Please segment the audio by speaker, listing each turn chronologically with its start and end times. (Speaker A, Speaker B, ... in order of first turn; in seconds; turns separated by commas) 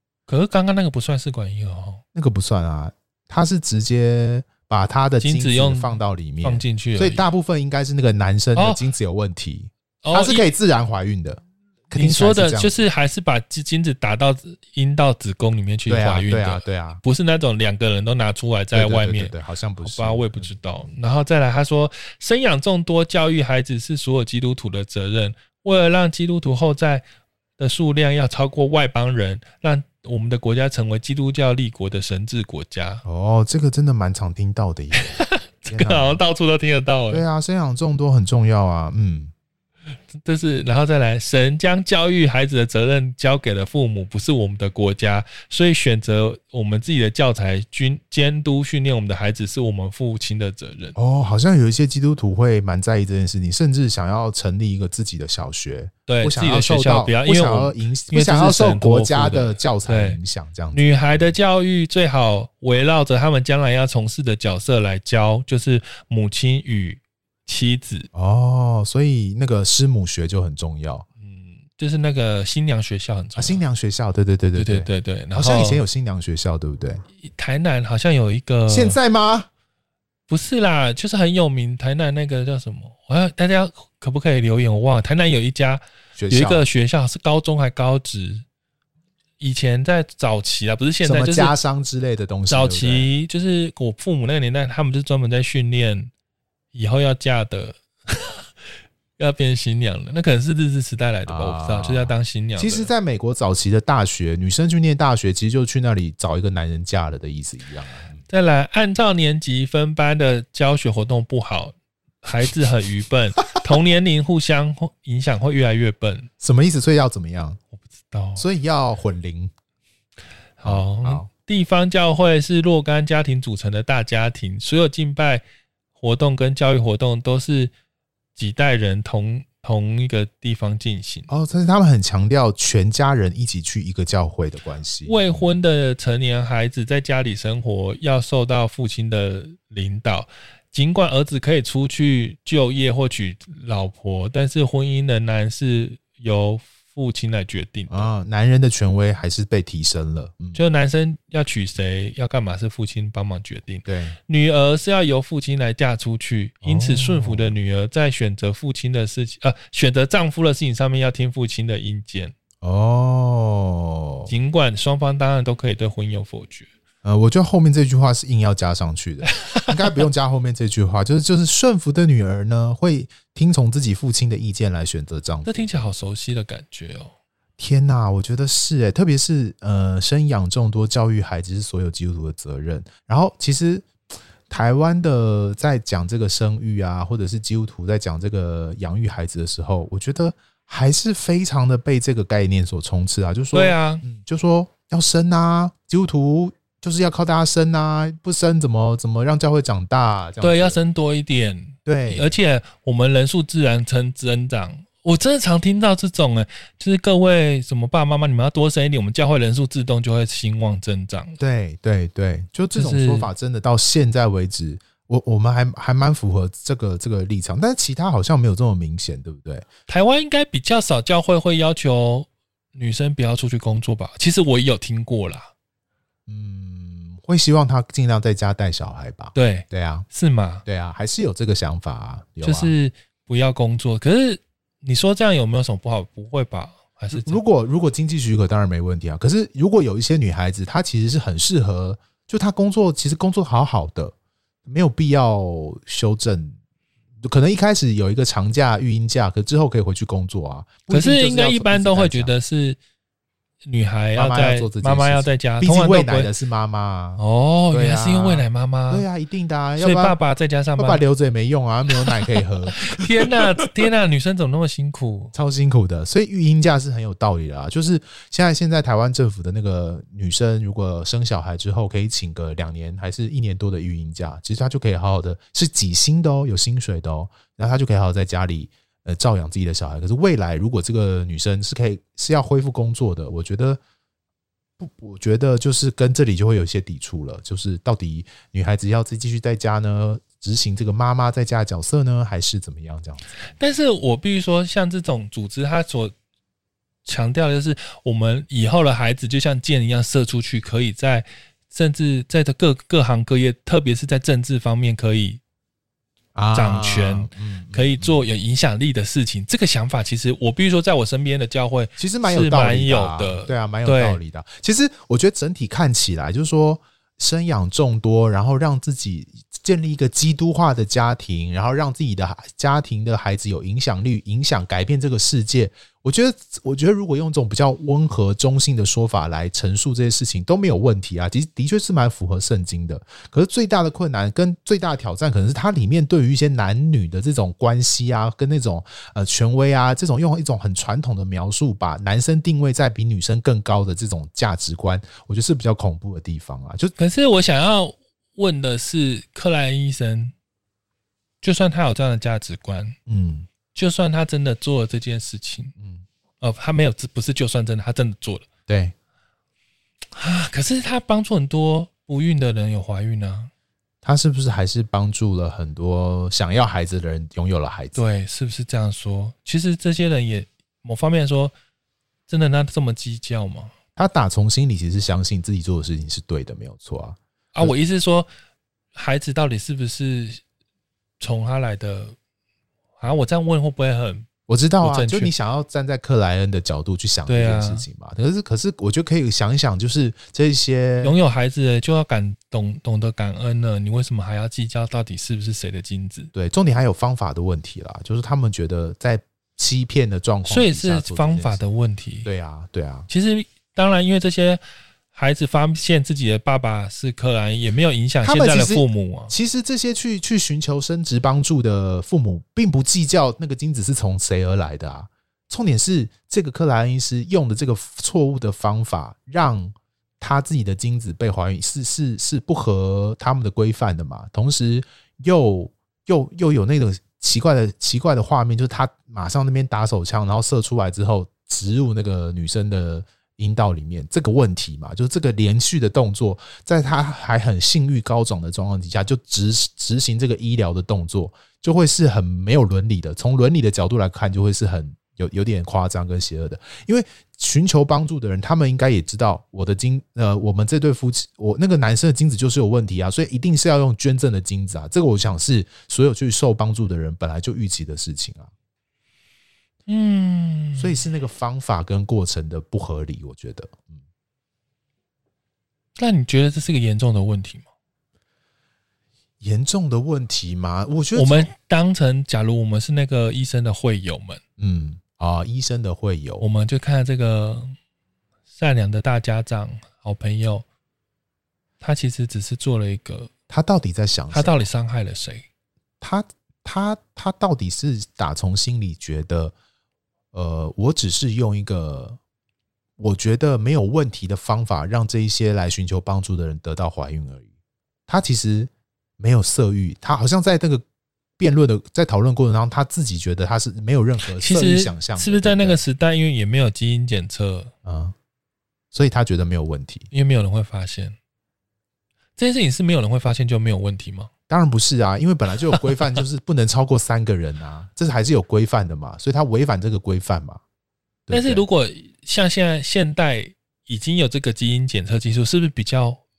Speaker A: 0.3-2.0, Speaker B: 2.1-12.8, Speaker A: 5.2-7.2, Speaker A: 8.6-8.8, Speaker A: 10.0-10.4, Speaker A: 11.9-27.0, Speaker B: 15.9-17.0, Speaker B: 18.7-20.6, Speaker A: 27.6-33.0, Speaker B: 33.0-36.2, Speaker A: 35.0-37.2, Speaker B: 37.1-39.3, Speaker A: 40.1-51.0, Speaker B: 51.0-61.3, Speaker A: 56.1-60.2, Speaker A: 60.7-68.1, Speaker B: 68.1-71.0, Speaker A: 71.2-73.6, Speaker B: 73.3-77.0, Speaker A: 74.5-75.8, Speaker A: 77.2-79.0, Speaker B: 78.7-79.5, Speaker A: 80.3-88.4, Speaker B: 86.2-86.6, Speaker A: 89.4-91.5, Speaker B: 91.0-93.1, Speaker A: 92.5-96.1, Speaker A: 96.7-98.5, Speaker A: 99.2-102.9, Speaker B: 101.3-108.2, Speaker A: 108.3-116.3, Speaker B: 116.4-117.6, Speaker A: 117.8-118.4, Speaker B: 118.4-119.5, Speaker A: 120.6-125.4, Speaker B: 120.6-121.3, Speaker A: 126.0-127.7, Speaker A: 128.3-131.3, Speaker B: 131.3-135.5, Speaker A: 135.0-148.1, Speaker B: 147.9-150.6, Speaker A: 150.5-162.3, Speaker B: 153.8-154.2, Speaker B: 156.6-157.5, Speaker B: 162.6-164.3, Speaker A: 164.2-166.7, Speaker B: 167.0-175.7, Speaker A: 169.2-170.0, Speaker A: 175.4-177.1, Speaker B: 177.6-183.9, Speaker B: 184.5-200.8, Speaker A: 193.5-194.0, Speaker A: 200.4-211.4, Speaker B: 201.8-202.3, Speaker B: 211.4-219.7, Speaker A: 212.7-213.3, Speaker A: 219.9-225.5, Speaker B: 226.3-230.1, Speaker A: 229.3-230.7, Speaker B: 230.7-232.7, Speaker A: 232.4-237.4, Speaker B: 237.1-244.1, Speaker B: 244.7-246.6, Speaker B: 247.2-252.3, Speaker A: 250.9-252.8, Speaker A: 253.6-256.3, Speaker B: 254.1-260.1, Speaker A: 257.2-259.1, Speaker A: 259.8-261.0, Speaker B: 260.8-263.7, Speaker A: 262.8-265.3, Speaker B: 265.3-283.8, Speaker B: 284.8-293.3, Speaker A: 293.6-296.1, Speaker A: 297.0-305.4, Speaker B: 306.3-308.2, Speaker A: 306.5-314.2, Speaker B: 312.0-346.9, Speaker A: 347.0-350.3, Speaker A: 351.4-352.9, Speaker B: 353.1-353.5, Speaker A: 353.7-355.7, Speaker B: 355.8-356.0, Speaker A: 356.4-358.4, Speaker B: 358.7-358.9, Speaker A: 360.1-363.5, Speaker B: 364.0-368.0, Speaker A: 367.9-371.5, Speaker A: 372.3-373.7, Speaker B: 373.9-377.7, Speaker A: 377.5-378.3, Speaker A: 378.9-380.4, Speaker A: 381.2-382.1, Speaker A: 383.0-384.3, Speaker B: 384.5-391.2, Speaker A: 384.8-385.3, Speaker A: 387.2-387.9, Speaker A: 391.0-396.3, Speaker B: 396.3-401.6, Speaker A: 400.4-402.3, Speaker B: 402.2-403.1, Speaker A: 403.1-404.6, Speaker A: 405.1-409.3, Speaker B: 408.2-458.5, Speaker A: 459.9-461.0, Speaker B: 460.8-464.0, Speaker A: 466.0-467.6, Speaker B: 469.4-471.5, Speaker A: 471.1-474.4, Speaker B: 474.6-476.4, Speaker A: 476.4-477.8, Speaker A: 478.5-480.6, Speaker A: 481.8-483.3, Speaker B: 483.5-484.7, Speaker A: 484.3-485.4, Speaker B: 486.0-489.5, Speaker B: 490.3-492.2, Speaker B: 493.0-497.5, Speaker B: 498.1-500.8, Speaker B: 501.4-505.8, Speaker A: 504.4-507.7, Speaker B: 507.8-508.1, Speaker B: 508.9-510.1, Speaker A: 510.1-511.1, Speaker A: 512.4-514.3, Speaker B: 514.5-520.6, Speaker B: 521.3-521.6, Speaker A: 521.3-526.2